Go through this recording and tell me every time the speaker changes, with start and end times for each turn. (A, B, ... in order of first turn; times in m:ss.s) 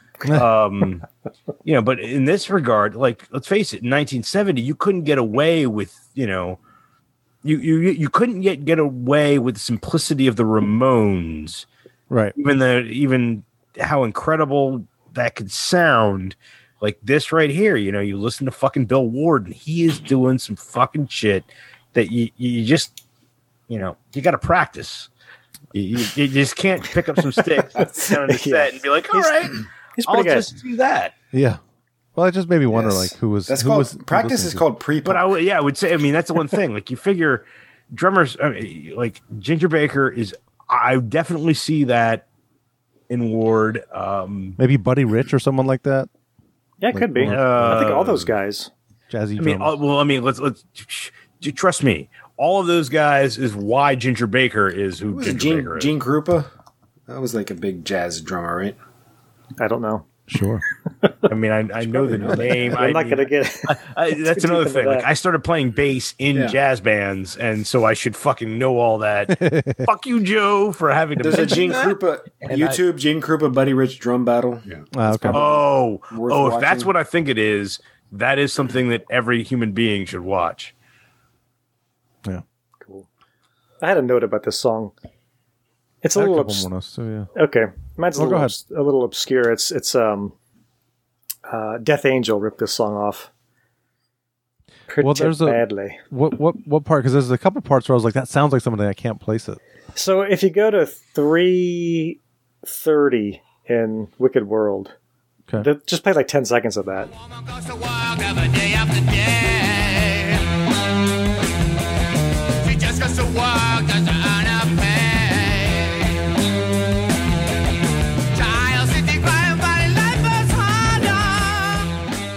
0:00.3-0:01.0 A
0:01.6-0:06.6 A
0:07.4-0:11.6 A
0:12.1-0:12.3 B
0:12.4-0:23.0 A
0:23.7-0:25.1 A
0:25.7-0:31.1 A
0:27.7-0:28.1 C
0:27.8-0:30.5 D
0:31.3-0:31.6 B
0:32.2-0:34.6 B
0:32.7-0:35.3 C
0:35.0-0:42.2 A
0:43.1-0:44.6 A
0:44.6-0:46.1 B
0:46.8-0:48.7 D
0:46.9-0:47.8 B
0:47.2-0:48.3 A
0:49.1-0:49.8 B
0:49.4-0:55.9 A
0:55.1-0:56.5 C
0:57.1-0:58.8 C
0:59.6-1:00.0 D
1:00.3-1:00.6 B
1:01.0-1:01.3 D
1:01.3-1:12.8 A
1:01.8-1:02.9 C
1:02.7-1:05.1 D
1:06.3-1:06.6 C
1:09.3-1:09.9 B
1:11.2-1:16.9 C
1:14.7-1:20.7 A
1:14.9-1:15.4 B
1:22.8-1:23.0 D
1:23.8-1:24.9 D
1:26.0-1:26.7 D
1:26.1-1:27.3 B
1:27.3-1:30.3 D
1:28.1-1:28.5 B
1:31.5-1:33.3 D
1:34.9-1:36.0 D
1:35.0-1:39.6 B
1:40.0-1:44.9 D
1:45.6-1:47.1 D
1:47.4-1:50.4 E
1:52.6-1:56.1 E
1:58.3-2:01.9 E